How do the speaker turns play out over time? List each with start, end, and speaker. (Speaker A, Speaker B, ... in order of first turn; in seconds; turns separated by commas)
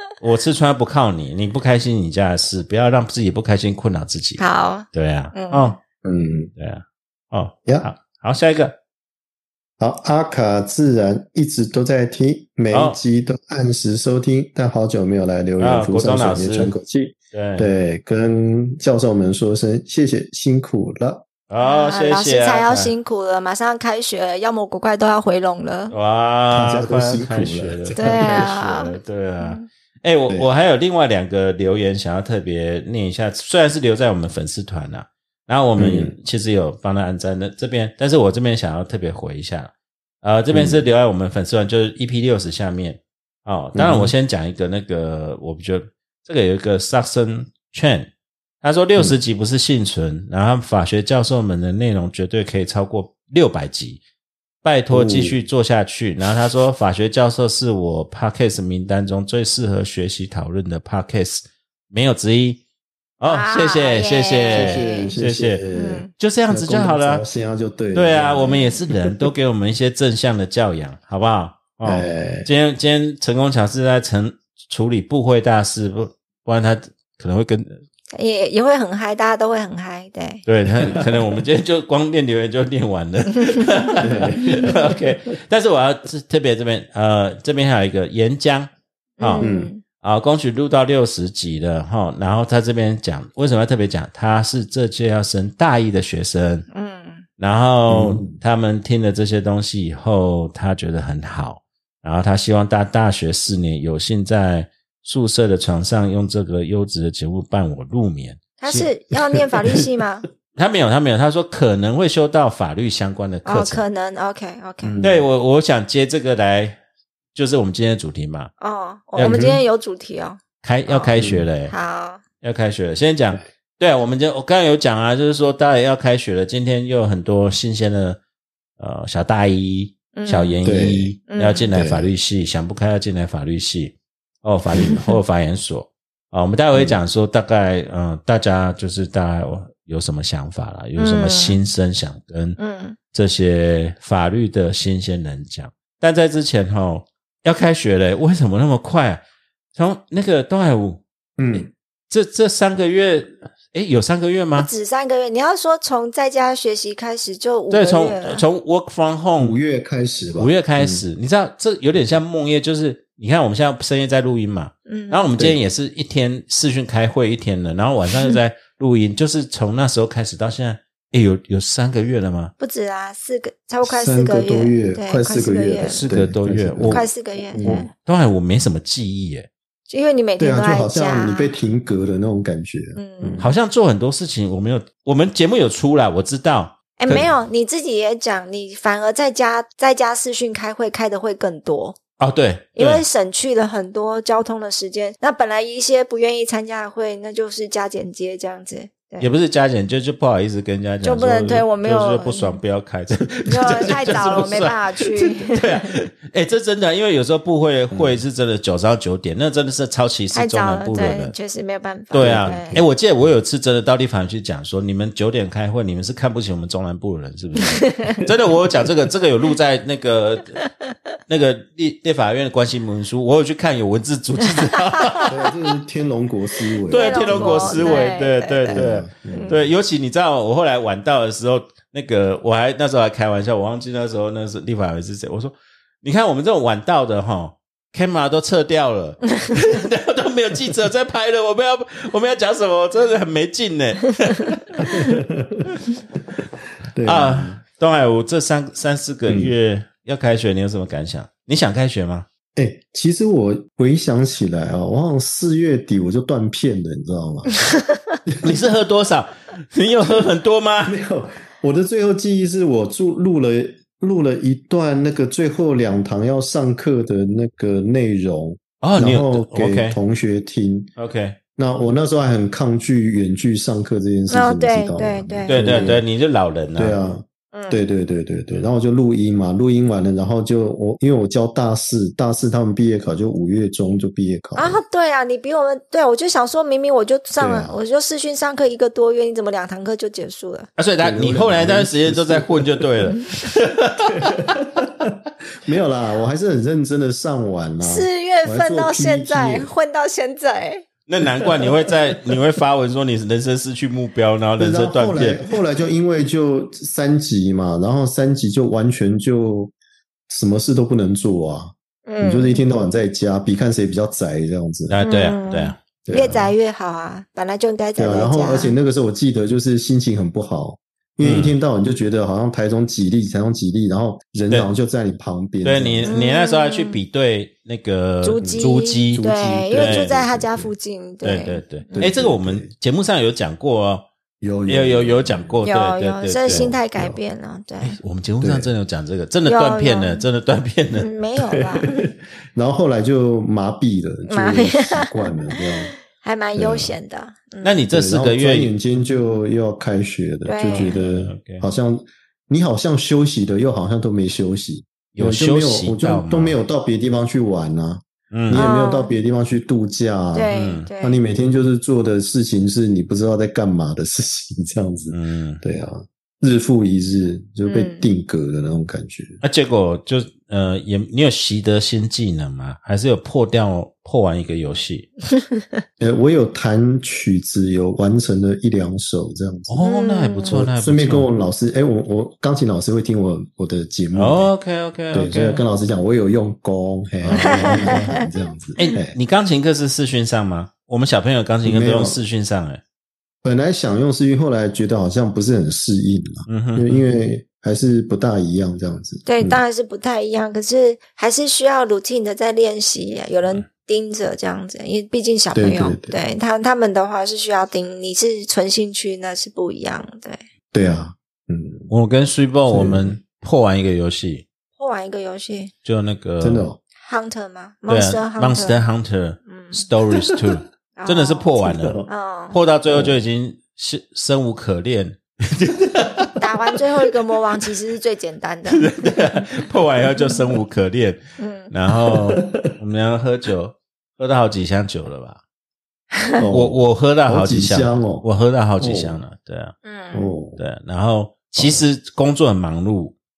Speaker A: 0.2-5.8, Speaker B: 4.4-5.7, Speaker C: 6.0-6.5, Speaker A: 6.6-8.8, Speaker C: 9.8-21.2, Speaker A: 12.7-13.0, Speaker A: 15.6-16.7, Speaker A: 17.3-17.7, Speaker A: 21.5-22.9, Speaker B: 21.6-25.9, Speaker A: 25.9-54.0, Speaker C: 26.5-28.5, Speaker B: 27.9-29.6, Speaker C: 35.8-36.1, Speaker C: 40.5-40.8, Speaker C: 43.7-44.1, Speaker A: 54.6-62.6, Speaker C: 54.9-55.4, Speaker A: 63.2-65.6, Speaker B: 63.3-65.1, Speaker C: 64.5-69.1, Speaker B: 65.7-66.1, Speaker A: 66.2-67.2, Speaker A: 67.9-77.8, Speaker C: 71.8-72.5, Speaker B: 78.1-80.4, Speaker A: 80.5-89.5, Speaker C: 84.0-85.0, Speaker B: 89.2-89.8, Speaker C: 89.4-89.7, Speaker A: 90.0-96.7, Speaker B: 96.7-97.2, Speaker A: 97.4-108.9, Speaker C: 97.9-98.4, Speaker B: 108.6-110.3, Speaker A: 110.5-113.8, Speaker B: 113.4-114.9, Speaker C: 114.8-115.2, Speaker A: 115.0-116.8, Speaker A: 117.3-118.5, Speaker B: 118.6-121.2, Speaker A: 119.2-119.5, Speaker C: 119.2-119.6, Speaker A: 120.6-121.7, Speaker C: 121.2-121.5, Speaker B: 121.7-122.2, Speaker A: 122.4-128.2, Speaker A: 128.8-142.6, Speaker B: 130.1-130.6, Speaker C: 130.6-131.1, Speaker B: 131.3-131.7, Speaker C: 131.7-132.1, Speaker B: 141.0-141.6, Speaker B: 142.6-143.0, Speaker A: 143.1-149.2, Speaker A: 149.7-151.0, Speaker C: 151.4-151.7, Speaker A: 151.5-154.7, Speaker B: 154.6-158.4, Speaker A: 157.7-159.6, Speaker C: 159.4-161.0, Speaker A: 160.4-172.5, Speaker B: 164.8-165.2, Speaker B: 172.6-176.1, Speaker C: 173.8-177.9, Speaker A: 175.8-177.1, Speaker B: 176.9-177.9, Speaker A: 177.6-179.5, Speaker B: 179.9-181.5, Speaker C: 180.4-183.4, Speaker B: 182.9-183.5, Speaker A: 183.4-187.2, Speaker B: 187.0-192.0, Speaker A: 192.2-193.0, Speaker B: 192.8-199.3, Speaker A: 199.2-211.3, Speaker B: 201.0-202.6, Speaker B: 203.5-205.9, Speaker C: 207.9-208.2, Speaker B: 210.3-212.8, Speaker A: 212.1-220.6, Speaker C: 212.2-212.9, Speaker B: 217.6-218.2, Speaker A: 221.3-225.4, Speaker C: 225.3-228.1, Speaker B: 226.9-229.6, Speaker A: 226.9-245.0, Speaker C: 228.7-229.6, Speaker C: 244.8-245.7, Speaker C: 246.9-247.6, Speaker A: 247.0-252.3, Speaker C: 249.3-249.5, Speaker C: 252.6-257.6, Speaker A: 258.4-260.9, Speaker C: 260.9-270.9, Speaker A: 268.8-270.0, Speaker A: 271.0-271.4, Speaker C: 271.6-276.0, Speaker B: 274.3-275.9, Speaker A: 275.5-277.0, Speaker C: 276.8-284.8, Speaker B: 277.5-277.8, Speaker B: 284.6-290.7, Speaker C: 287.4-287.7, Speaker A: 290.8-294.4, Speaker C: 291.0-293.1, Speaker C: 294.1-299.7, Speaker B: 297.8-300.8, Speaker A: 301.1-305.5, Speaker C: 304.6-309.7, Speaker C: 310.3-314.9, Speaker B: 312.1-312.6, Speaker A: 314.9-315.8, Speaker B: 315.0-318.7, Speaker C: 316.0-316.5, Speaker C: 318.0-326.1, Speaker A: 321.2-321.5, Speaker A: 325.6-330.2, Speaker B: 326.1-327.0, Speaker B: 328.2-332.1, Speaker C: 328.4-330.7, Speaker A: 331.2-334.1, Speaker C: 331.9-332.7, Speaker C: 334.4-335.6, Speaker A: 334.6-336.8, Speaker B: 335.6-338.0, Speaker C: 336.5-337.1, Speaker A: 337.8-341.1, Speaker C: 338.4-338.7, Speaker B: 339.4-340.2, Speaker B: 341.0-342.0, Speaker C: 341.5-345.9, Speaker B: 344.3-345.1, Speaker B: 346.1-347.8, Speaker C: 346.6-346.9, Speaker A: 347.6-348.7, Speaker C: 347.9-369.4, Speaker B: 350.4-351.0, Speaker A: 350.7-351.7, Speaker A: 355.1-356.6, Speaker A: 358.3-358.6, Speaker B: 358.5-359.1, Speaker B: 360.3-361.2, Speaker A: 360.5-360.9, Speaker A: 365.1-365.6, Speaker B: 367.6-368.1, Speaker A: 369.4-375.1, Speaker C: 376.0-379.9, Speaker A: 379.7-381.3, Speaker B: 379.8-380.5, Speaker C: 380.4-384.5, Speaker A: 384.1-385.6, Speaker C: 385.1-389.1, Speaker A: 387.2-388.1, Speaker B: 387.4-388.3, Speaker A: 388.8-392.8, Speaker C: 391.6-392.2, Speaker C: 393.4-399.6, Speaker A: 396.5-397.0, Speaker B: 399.2-410.4, Speaker C: 405.5-406.1, Speaker C: 410.7-411.9, Speaker A: 411.9-414.4, Speaker C: 412.7-413.2, Speaker B: 414.8-415.7, Speaker A: 415.8-416.7, Speaker C: 416.4-416.8, Speaker B: 417.0-418.8, Speaker A: 417.9-426.4, Speaker B: 419.5-419.8, Speaker B: 420.9-422.6, Speaker C: 421.6-422.1, Speaker C: 422.9-423.2, Speaker B: 426.4-428.9, Speaker A: 428.7-435.4, Speaker B: 431.4-431.7, Speaker C: 432.1-432.7, Speaker B: 436.1-436.4, Speaker C: 436.4-438.2, Speaker A: 436.5-439.7, Speaker C: 438.8-439.2, Speaker B: 439.8-440.3, Speaker C: 440.1-440.6, Speaker A: 440.6-443.1